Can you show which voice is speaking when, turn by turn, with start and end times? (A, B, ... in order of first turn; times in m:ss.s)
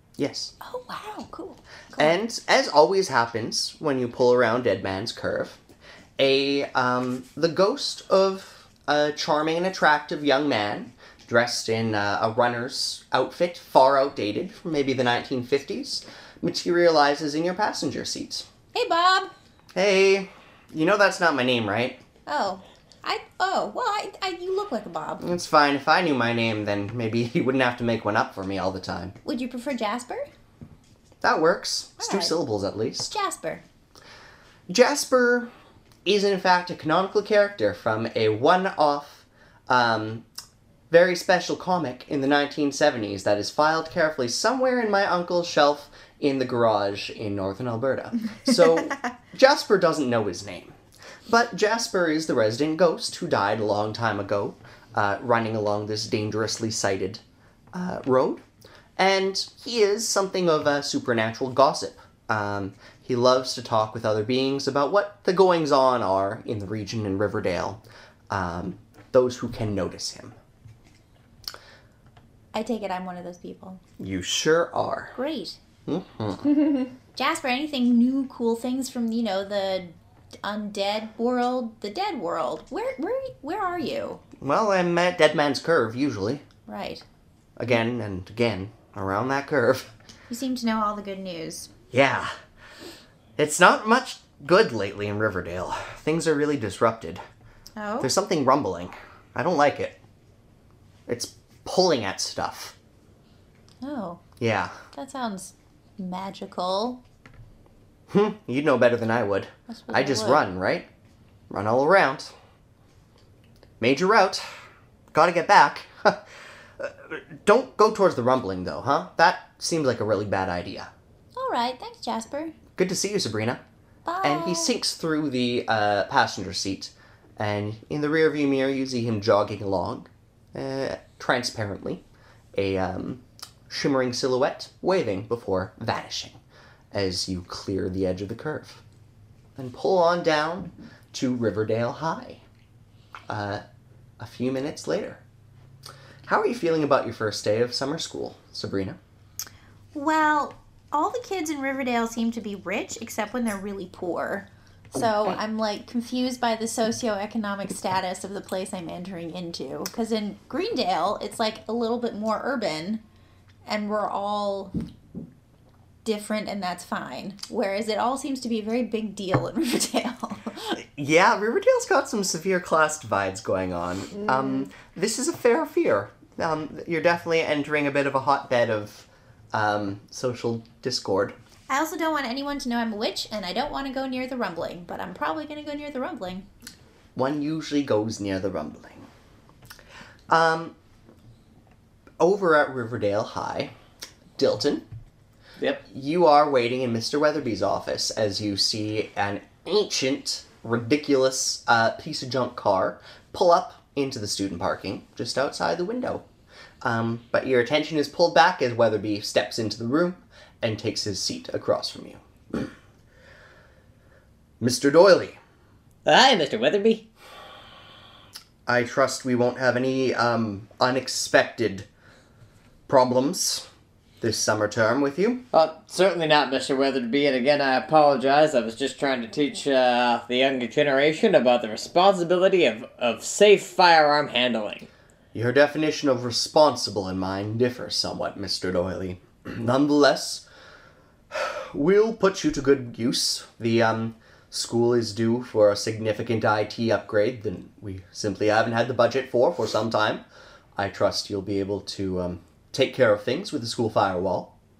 0:00.2-0:00.5 A
0:00.6-0:02.1 B
0:02.0-0:05.6 A
0:06.2-0:18.4 A
0:18.7-0:19.3 B
0:19.7-0:22.0 A
0:22.2-0:25.2 B
0:25.2-0:29.2 A
0:29.2-0:30.3 B
0:31.2-0:33.2 A
0:32.0-0:32.3 B
0:33.1-0:33.6 B
0:34.7-0:35.5 A
0:36.0-0:40.2 A
0:40.9-0:50.7 A
0:51.3-0:57.2 A
0:57.7-0:58.4 A
0:59.0-1:10.3 A
1:12.5-1:13.8 B
1:14.0-1:15.2 A
1:15.2-1:15.6 B
1:15.8-1:16.6 A
1:17.1-1:24.2 B
1:24.4-1:26.4 A
1:26.7-1:27.0 B
1:27.6-1:29.9 A
1:30.3-1:31.7 B
1:31.9-1:32.3 A
1:33.4-1:37.2 A
1:37.8-1:38.1 B
1:38.0-1:40.0 A
1:41.1-1:42.7 A
1:43.8-1:44.2 B
1:44.4-1:44.7 A
1:44.9-1:47.0 B
1:48.1-1:50.9 A
1:49.7-1:50.4 B
1:51.5-1:52.3 A
1:53.8-1:54.4 A
1:55.1-1:56.2 A
1:56.8-2:00.9 A
2:01.3-2:02.5 B
2:02.8-2:03.6 A
2:04.0-2:04.7 B
2:04.2-2:12.0 A
2:12.5-2:16.4 A
2:16.9-2:18.8 A
2:19.6-2:22.4 A
2:23.3-2:23.6 A
2:24.2-2:25.2 A
2:26.2-2:29.0 A
2:29.9-2:43.0 B
2:35.0-2:35.4 A
2:43.6-2:44.7 B
2:46.0-2:50.8 B
2:50.9-3:01.3 A
3:01.7-3:06.4 B
3:07.2-3:09.1 A
3:10.3-3:10.7 A
3:12.2-3:13.7 A
3:14.4-3:14.8 A
3:15.9-3:26.2 A
3:26.8-3:32.7 A
3:34.6-3:35.4 A
3:36.0-3:37.1 C
3:38.6-3:41.9 A
3:42.9-3:43.6 A
3:44.2-3:45.4 A
3:45.5-3:54.9 C
3:55.3-4:00.4 A
4:01.3-4:10.2 A
4:10.8-4:14.5 A